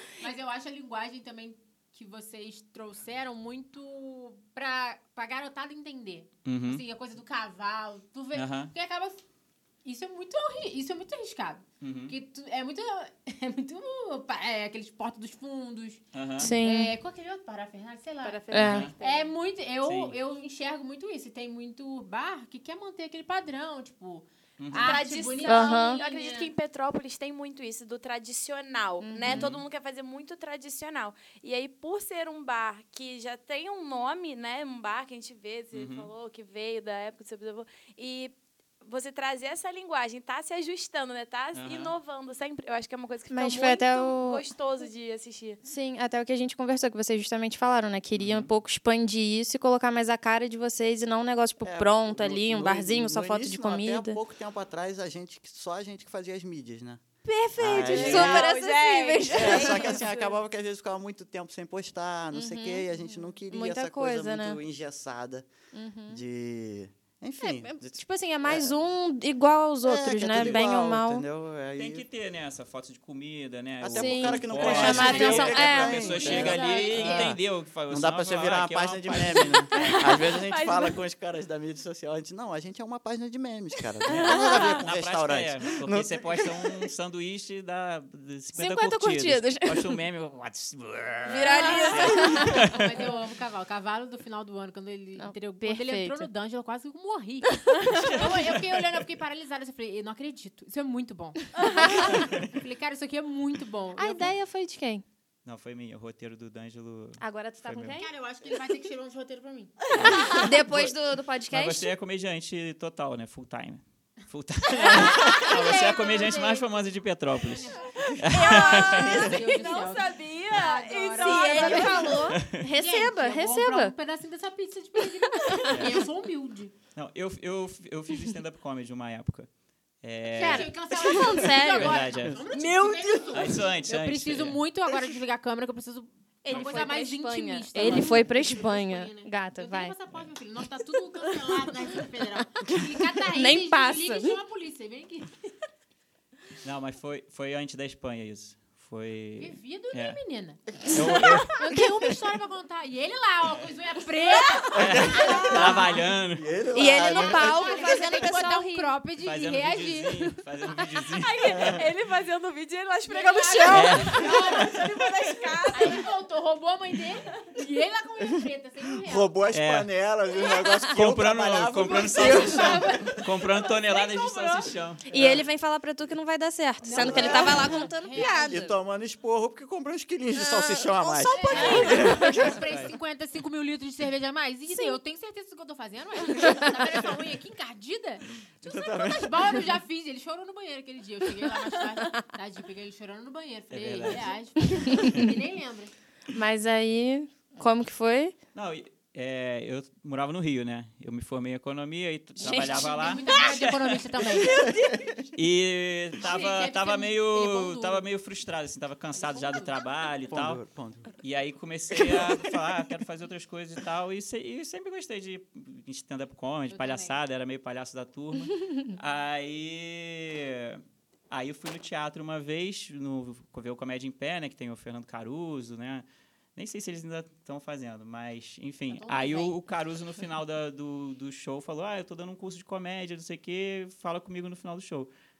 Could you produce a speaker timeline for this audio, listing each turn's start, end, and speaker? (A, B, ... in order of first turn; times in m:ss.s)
0:00.2-0:09.2 A
0:06.4-0:06.8 B
0:08.3-0:08.7 B
0:09.8-0:26.5 A
0:11.8-0:12.1 B
0:16.1-0:16.5 B
0:16.4-0:16.9 C
0:18.2-0:19.3 D
0:18.5-0:18.9 C
0:18.6-0:18.9 B
0:19.8-0:20.2 B
0:24.6-0:25.0 B
0:24.7-0:45.6 D
0:25.4-0:26.0 C
0:29.0-0:29.5 C
0:29.2-0:29.6 B
0:35.7-0:36.1 B
0:41.5-0:41.9 B
0:43.3-0:44.4 C
0:45.6-0:54.2 C
0:48.1-0:48.5 B
0:51.6-0:57.0 E
0:57.3-1:00.0 C
0:57.6-0:58.5 B
0:57.6-0:58.5 E
0:57.7-1:00.4 D
0:59.3-1:05.5 E
1:02.3-1:04.6 C
1:05.7-1:06.2 C
1:06.1-1:08.8 E
1:07.4-1:11.2 C
1:09.8-1:12.0 E
1:10.3-1:10.7 B
1:11.8-1:19.9 B
1:13.8-1:26.7 E
1:13.9-1:17.3 C
1:16.9-1:17.2 A
1:19.7-1:20.9 D
1:24.1-1:32.9 B
1:24.2-1:24.6 D
1:24.3-1:24.6 C
1:28.5-1:29.9 C
1:31.2-1:32.6 C
1:31.4-1:44.3 A
1:31.5-1:32.1 D
1:35.2-1:36.3 C
1:37.9-1:38.6 B
1:41.6-1:42.1 D
1:41.8-1:42.2 C
1:42.1-1:42.5 B
1:44.0-1:45.0 C
1:45.4-1:48.0 B
1:47.2-1:48.1 C
1:48.0-1:49.8 A
1:49.8-1:50.6 D
1:49.9-1:51.0 B
1:50.0-1:51.9 C
1:51.5-1:59.3 B
1:54.8-2:06.7 A
1:55.2-1:55.5 D
1:57.8-2:02.2 D
2:01.2-2:03.9 C
2:02.3-2:02.5 B
2:05.7-2:06.0 B
2:06.9-2:09.5 B
2:10.0-2:12.4 B
2:10.2-2:25.3 A
2:10.4-2:12.1 C
2:12.5-2:13.2 E
2:13.3-2:14.6 B
2:16.4-2:19.9 C
2:16.5-2:16.8 B
2:22.6-2:24.4 C
2:26.6-2:30.2 B
2:29.4-2:30.6 A
2:30.8-2:31.6 B
2:30.9-2:31.4 E
2:31.5-2:35.9 A
2:34.7-2:37.6 E
2:34.8-2:36.5 B
2:36.7-2:38.9 C
2:37.0-2:40.4 A
2:37.7-2:38.0 D
2:39.2-2:41.8 B
2:41.1-2:46.0 D
2:41.4-2:41.8 E
2:43.0-2:45.1 A
2:43.7-2:44.2 B
2:45.6-2:49.4 A
2:48.4-2:53.2 E
2:49.5-2:49.9 B
2:50.8-2:55.1 B
2:51.8-2:54.7 A
2:55.1-2:58.7 C
2:55.1-2:55.4 E
2:56.8-2:58.7 A
2:56.9-3:02.5 E
3:00.3-3:02.5 C
3:01.3-3:15.9 A
3:01.6-3:02.9 B
3:04.7-3:05.0 C
3:08.6-3:09.6 E
3:13.7-3:14.3 B
3:14.8-3:15.2 C
3:16.3-3:18.4 C
3:18.5-3:24.7 B
3:22.4-3:24.7 A
3:22.4-3:22.8 C
3:24.7-3:25.1 E
3:25.3-3:30.6 B
3:26.2-3:28.0 A
3:29.2-3:29.8 A
3:30.3-3:31.1 E
3:31.2-3:46.0 B
3:31.9-3:32.5 E
3:36.7-3:37.2 A
3:46.6-3:55.1 B
3:48.9-3:49.6 A